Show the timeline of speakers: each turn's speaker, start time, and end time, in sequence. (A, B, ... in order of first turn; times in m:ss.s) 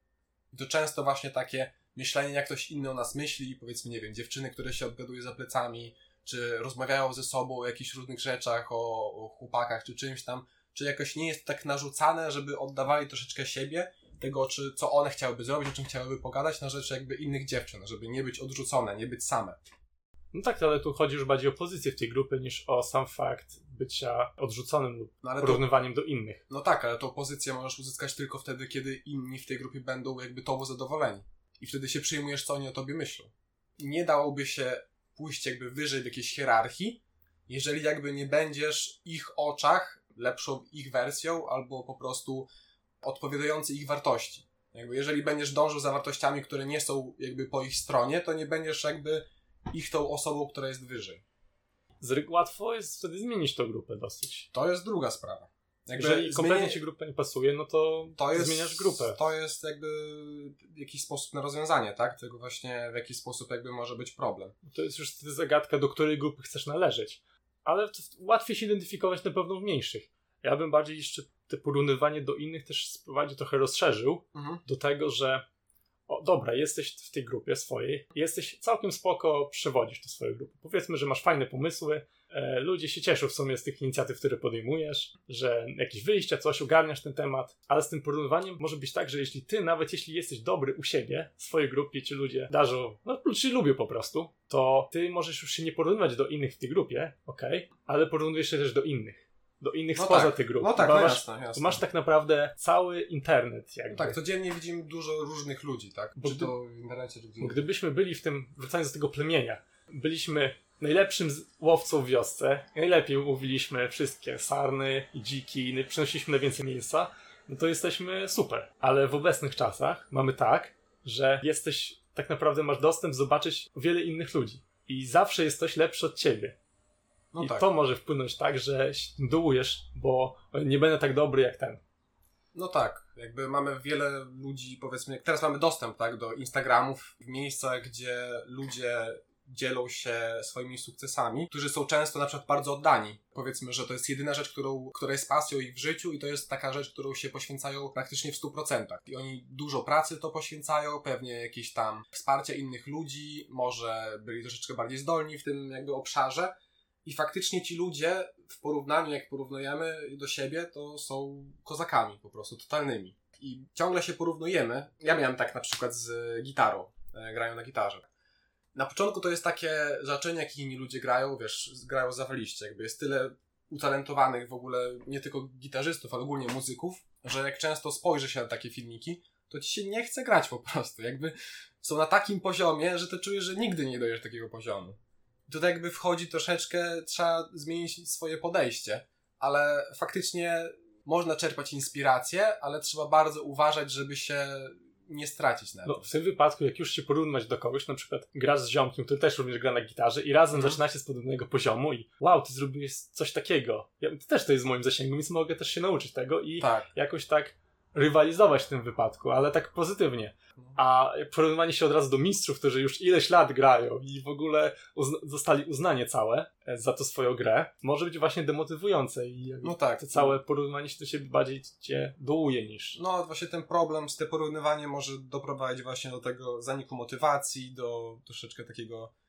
0:00.5-0:19.6 A
0:20.3-0:26.4 B
0:25.2-0:25.6 A
0:26.5-0:42.5 A
0:43.0-0:51.2 A
0:52.0-0:54.5 B
0:54.5-0:56.8 A
0:56.0-0:59.2 B
0:58.2-1:04.5 A
1:04.6-1:15.4 B
1:14.3-1:14.6 A
1:16.1-1:44.2 B
1:40.0-1:41.8 A
1:43.9-1:47.6 A
1:46.2-1:46.5 B
1:47.4-2:06.6 B
2:07.3-2:07.6 A
2:07.4-2:11.8 B
2:12.5-2:36.5 A
2:37.0-2:48.1 A
2:48.7-3:05.0 A
3:05.5-3:16.1 A
3:15.8-3:43.0 B
3:20.5-3:20.8 A
3:26.6-3:26.9 A
3:39.6-3:40.4 A
3:43.0-3:49.1 A